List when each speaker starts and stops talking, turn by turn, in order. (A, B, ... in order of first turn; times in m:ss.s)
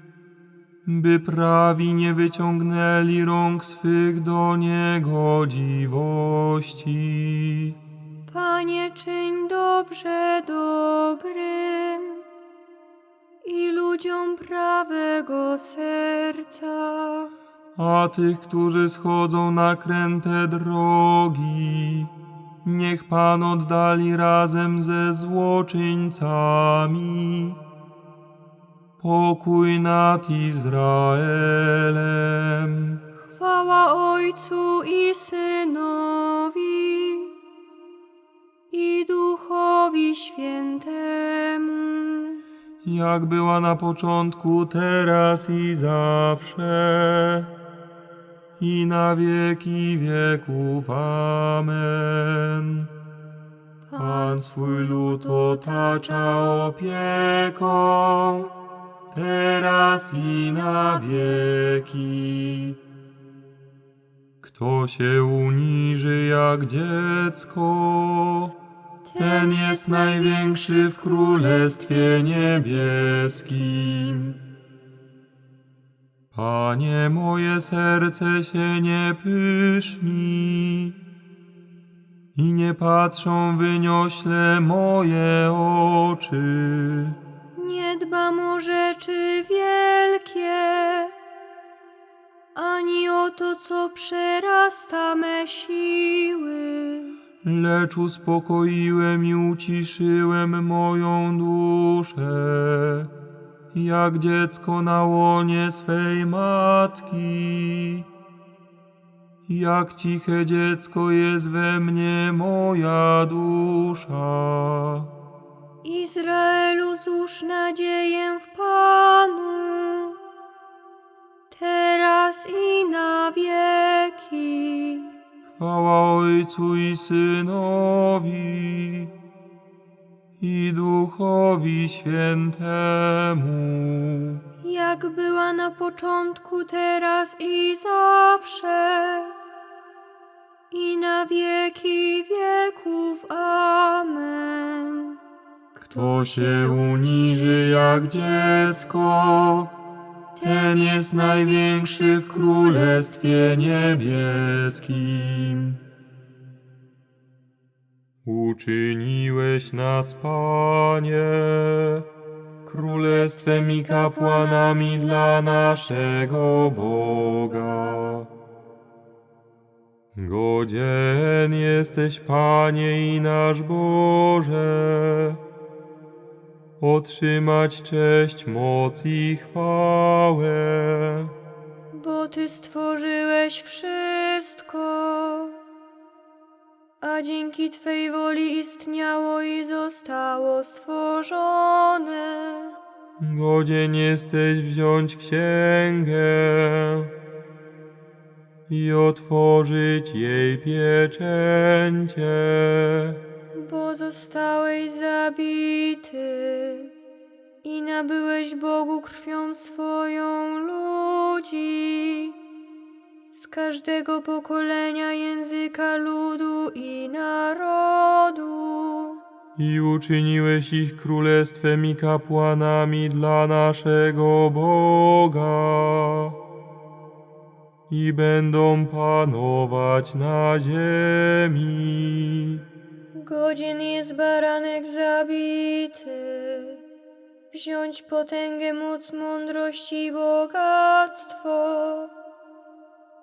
0:00.8-0:07.8 A
0:08.3-0:12.2 B
0:13.4-0:17.3 B
0:17.8-0:22.1 A
0:22.6-0:27.6 A
0:29.0-0:33.0 A
0:33.4-0:37.3 B
0:38.7-0:42.4 B
0:42.8-0:47.5 A
0:48.6-0:52.9 A
0:53.9-0:56.0 B
0:54.0-0:58.5 A
0:59.1-1:02.8 A
1:04.4-1:08.5 A
1:09.0-1:10.3 B
1:09.2-1:14.4 A
1:16.3-1:21.0 A
1:22.3-1:27.2 A
1:27.6-1:31.1 B
1:32.5-1:37.2 B
1:37.4-1:43.1 A
1:43.7-1:48.0 A
1:49.5-1:55.1 A
1:55.8-2:00.2 B
2:01.5-2:05.1 B
2:05.6-2:09.1 A
2:10.4-2:14.4 A
2:14.6-2:19.3 B
2:20.7-2:25.2 B
2:25.8-2:29.7 A
2:30.4-2:35.8 A
2:30.7-2:31.1 B
2:38.2-2:42.0 A
2:42.7-2:48.3 A
2:43.2-2:45.0 B
2:50.2-2:55.4 A
2:56.8-3:01.3 A
3:01.9-3:05.6 B
3:07.0-3:12.8 B
3:13.2-3:17.1 A
3:18.7-3:23.2 A
3:23.5-3:26.9 B
3:27.6-3:32.4 B
3:33.3-3:39.2 B
3:39.6-3:46.3 A
3:47.9-3:52.6 A
3:53.2-3:56.8 B
3:57.5-4:02.1 B